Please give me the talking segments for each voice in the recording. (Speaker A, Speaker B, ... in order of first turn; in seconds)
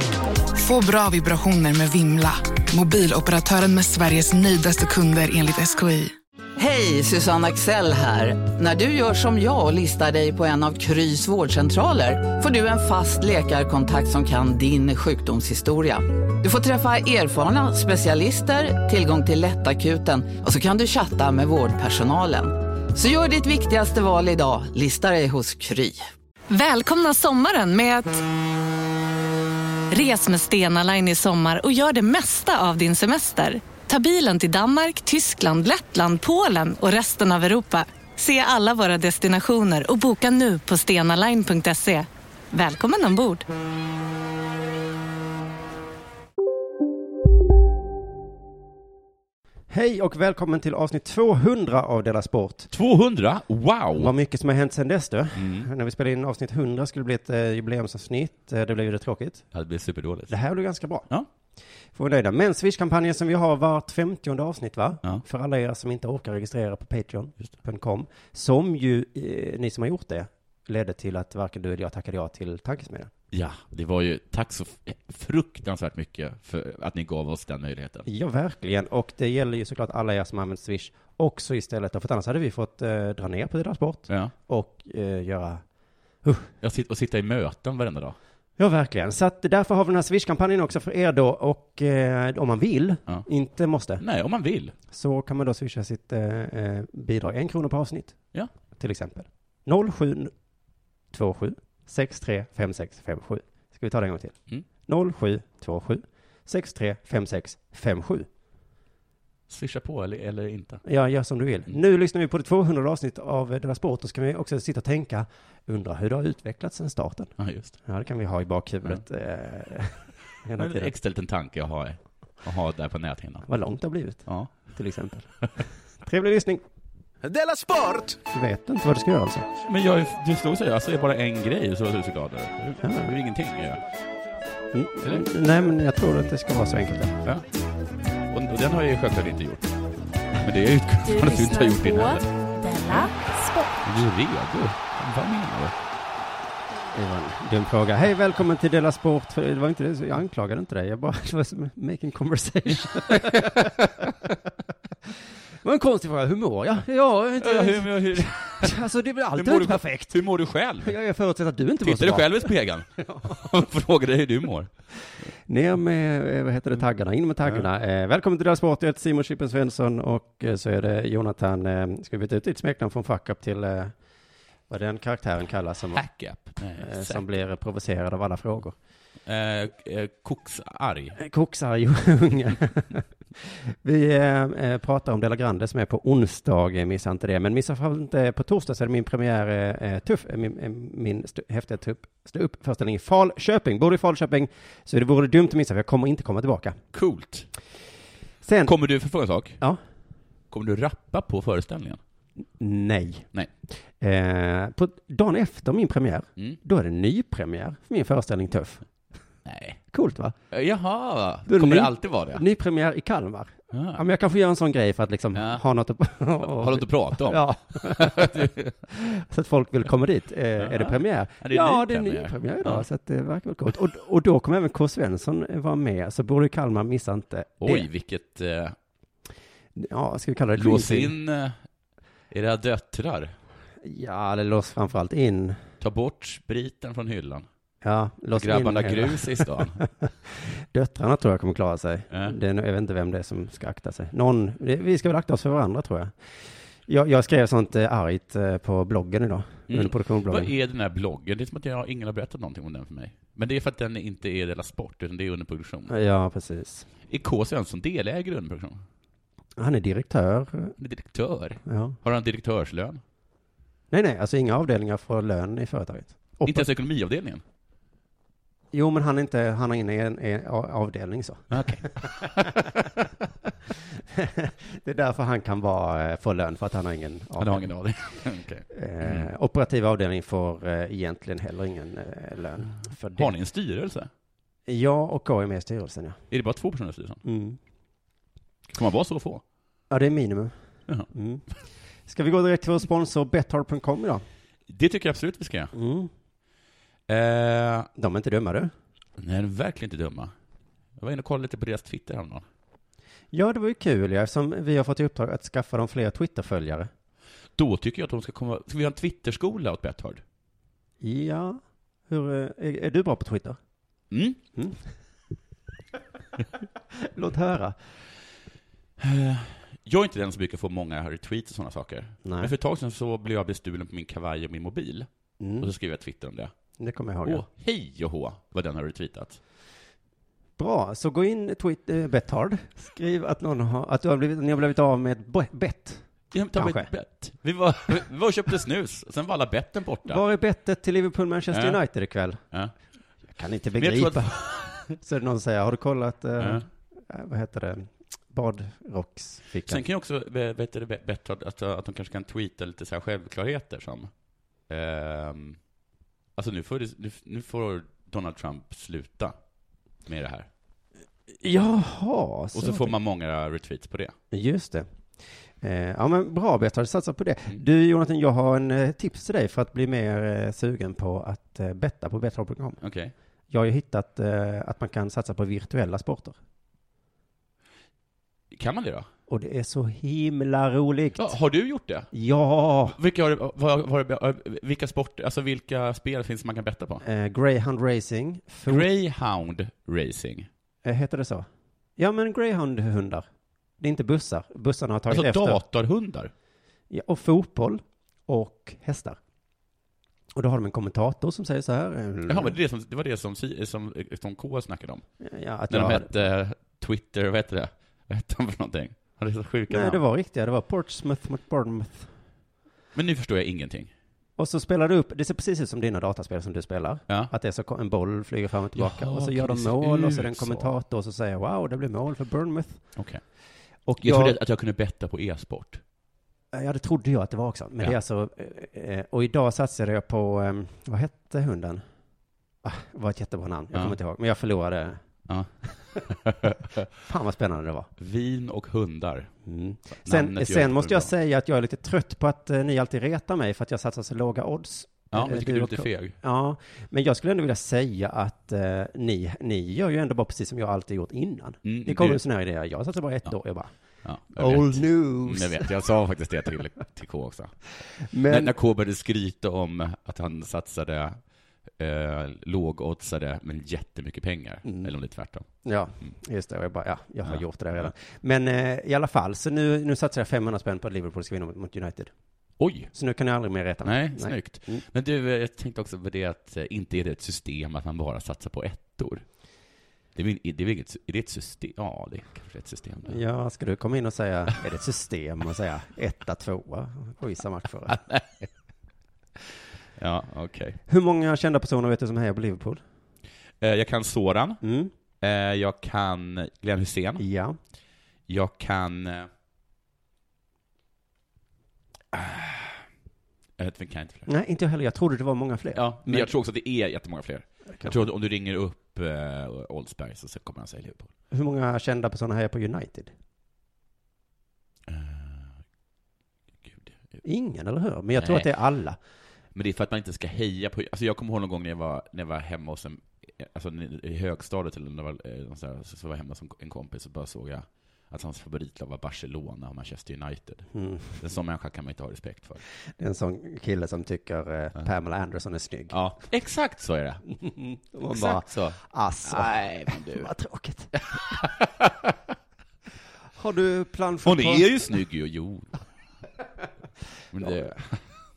Speaker A: 0.5-6.1
Speaker B: 6.6-26.0
Speaker C: 26.5-28.2, 29.9-43.5
Speaker D: 49.7-52.7, 54.0-59.4, 60.3-61.1, 61.9-73.1, 78.1-85.6, 86.2-86.5, 88.6-94.0, 94.9-98.2, 98.8-100.3, 101.1-108.3, 110.8-117.3, 117.8-120.9, 123.5-125.3, 126.0-126.6, 128.3-129.4, 132.8-133.1, 134.7-137.2, 146.9-153.9, 155.6-160.2, 160.8-163.4, 165.5-173.9, 174.7-176.0, 176.8-178.8, 181.2-196.8, 198.4-198.7, 202.6-203.3, 204.0-208.8, 209.9-210.3, 211.5-227.8, 229.8-231.1, 233.8-235.6, 237.8-246.3, 246.8-250.5, 255.9-256.9, 259.6-260.7, 261.6-262.0, 263.9-266.7, 268.7-272.9, 274.1-277.6, 278.7-283.3, 284.7-286.2, 287.2-287.6, 289.9-290.5, 291.1-291.4, 292.1-294.2, 295.7-296.1, 298.0-298.7, 303.3-306.9, 311.0-313.6, 317.0-317.8, 322.2-322.5, 325.4-325.7, 326.8-327.4, 330.6-336.9, 340.1-342.4, 343.3-349.8, 361.3-362.9, 364.3-364.9, 365.6-372.8, 373.5-376.4, 379.3-381.3, 382.1-382.9, 387.0-388.9, 390.8-393.2, 393.8-395.6, 396.9-399.2, 400.4-402.6, 405.2-406.3, 409.7-412.1, 414.4-422.9, 423.9-424.4, 426.5-431.8, 432.6-435.0, 437.0-437.9, 439.4-453.7, 454.3-455.7, 458.1-458.5, 464.6-464.9, 465.6-472.1, 472.9-474.8, 483.1-488.0, 490.9-492.8, 494.6-494.9, 497.2-497.6, 504.3-506.3, 507.7-508.1, 511.3-513.1, 517.2-519.0, 530.7-531.2, 533.0-536.0, 537.3-540.9, 543.4-544.9, 547.4-547.7
Speaker E: 52.7-54.1, 55.3-55.7, 59.5-60.3, 73.3-78.1, 84.1-84.3, 86.6-88.2, 94.0-94.7, 109.5-110.8, 117.4-117.8, 120.5-123.5, 124.2-124.5, 129.6-133.8, 138.3-139.8, 140.4-142.3, 142.8-143.1, 143.8-145.7, 152.9-154.1, 157.4-158.8, 159.3-160.9, 161.8-164.7, 175.9-177.2, 179.2-181.2, 196.9-197.5, 198.6-199.6, 200.5-202.0, 209.4-209.8, 210.5-212.4, 213.7-214.0, 215.3-215.6, 216.4-218.7, 220.6-222.8, 227.6-228.8, 230.6-231.6, 232.3-233.3, 235.8-237.5, 238.3-239.8, 242.1-242.3, 249.7-255.9, 257.1-258.8, 260.8-263.0, 266.4-267.4, 271.5-272.8, 277.4-279.3, 283.1-284.1, 286.3-287.2, 288.7-289.4, 294.7-295.7, 297.1-297.9, 299.2-300.3, 301.0-302.4, 307.6-310.2, 314.1-314.4, 319.0-326.5, 327.2-329.4, 336.3-340.2, 341.5-341.8, 343.8-344.8, 346.4-346.6, 349.6-355.6, 356.4-359.4, 360.0-360.5, 362.5-364.1, 372.8-373.1, 378.5-379.1, 381.1-382.1, 382.9-387.0, 388.7-390.5, 395.1-396.3, 402.3-405.1, 405.7-410.0, 412.9-413.9, 418.7-420.7, 422.9-423.2, 424.0-425.8, 435.3-436.9, 438.0-439.3, 440.0-441.1, 445.1-446.1, 451.6-452.2, 454.0-457.6, 458.2-461.2, 461.8-465.5, 467.2-467.9, 472.6-472.9, 473.8-479.2, 480.1-483.2, 487.9-488.5, 490.0-490.8, 493.6-494.6, 495.2-497.2, 498.3-499.3, 502.1-502.8, 503.6-504.3, 505.7-511.1, 514.9-515.6, 516.6-517.2, 518.2-518.5, 519.5-532.6, 535.9-537.2, 538.1-540.3, 540.9-542.1, 544.2-545.8, 547.3-548.0